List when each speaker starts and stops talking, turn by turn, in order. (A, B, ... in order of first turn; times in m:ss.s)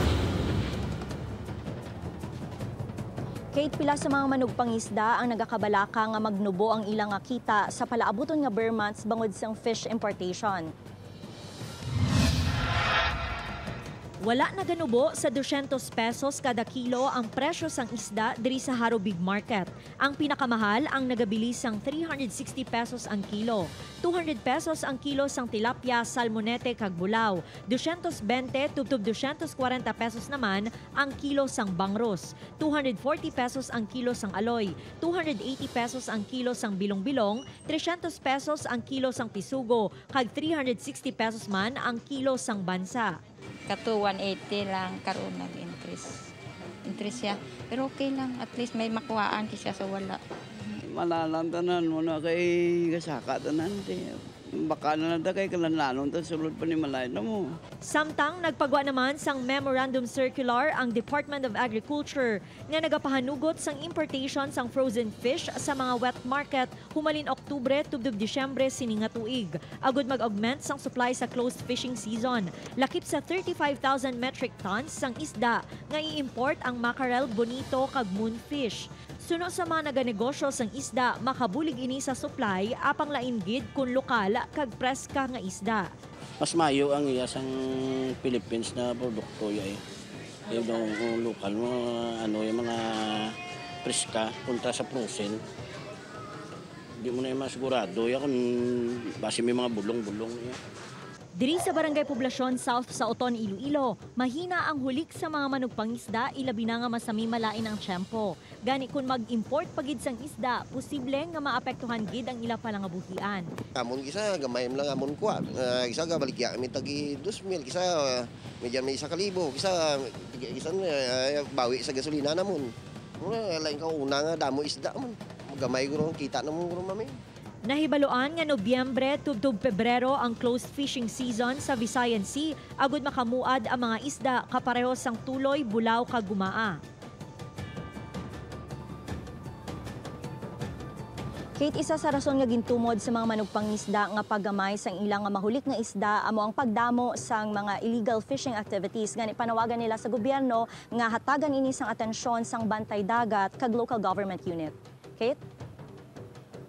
0:03.5-0:10.7 A
0:14.2-0:43.2 B
0:43.7-0:46.2 C
0:46.8-0:50.8 C
0:51.0-0:54.0 D
0:54.7-0:57.4 D
0:57.8-1:25.9 B
1:26.4-1:29.8 E
1:30.5-1:35.4 E
1:37.0-1:40.6 E
1:41.4-1:53.5 B
1:53.8-2:07.2 F
2:07.6-2:16.8 B
2:21.6-2:35.4 A